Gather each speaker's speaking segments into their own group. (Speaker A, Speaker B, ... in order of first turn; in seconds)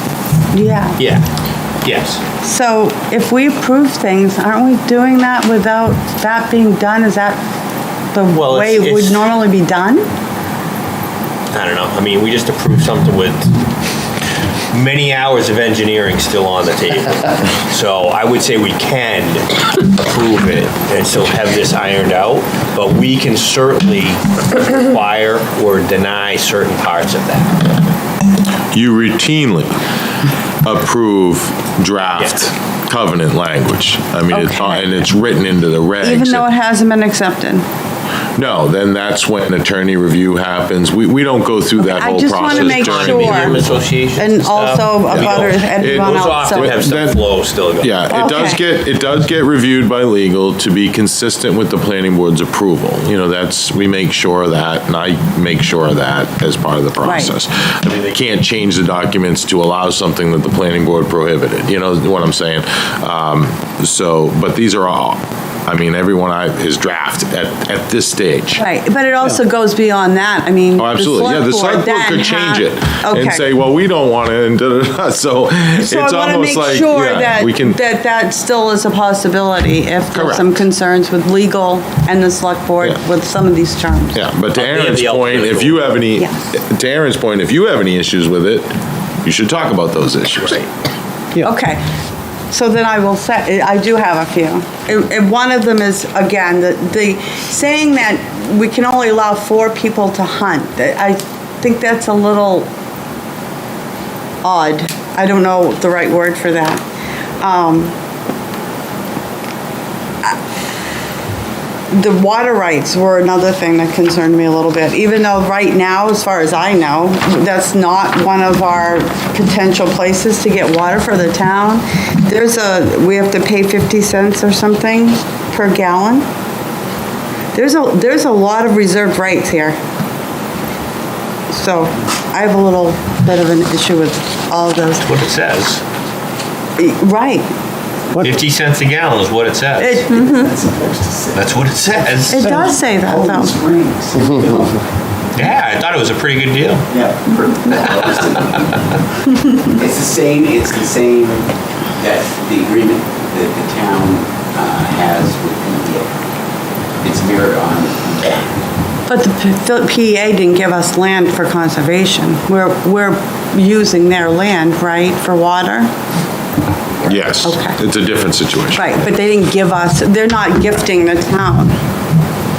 Speaker A: 0.5-1.0, 2.4-7.4, 8.1-10.1, 34.3-35.0, 36.0-37.6, 41.8-43.6, 44.1-46.8, 48.1-48.6, 57.0-57.3, 68.6-73.5, 75.8-84.2, 91.4-91.8, 92.5-102.7, 104.4-106.8, 107.4-107.9, 111.9-126.2, 127.5-129.8, 131.5-135.1, 136.8-137.4, 139.8-140.6, 142.3-143.6, 159.1-165.9, 167.4-167.8, 168.7-171.8
Speaker B: 1.0-1.2, 1.8-2.2, 8.3-9.3, 11.5-13.5, 14.7-27.7, 42.3-48.0, 84.5-86.0, 135.0-135.8, 138.2-140.1, 141.3-142.5, 145.3-146.9, 147.7-148.6
Speaker C: 28.7-29.8, 30.6-36.5, 38.4-43.8, 45.1-68.6, 70.8-77.8, 80.1-80.6, 84.1-88.7, 89.2-90.7, 167.1-169.1
Speaker D: 140.1-141.5, 142.4-144.8, 146.9-148.8, 149.4-156.1, 157.0-158.5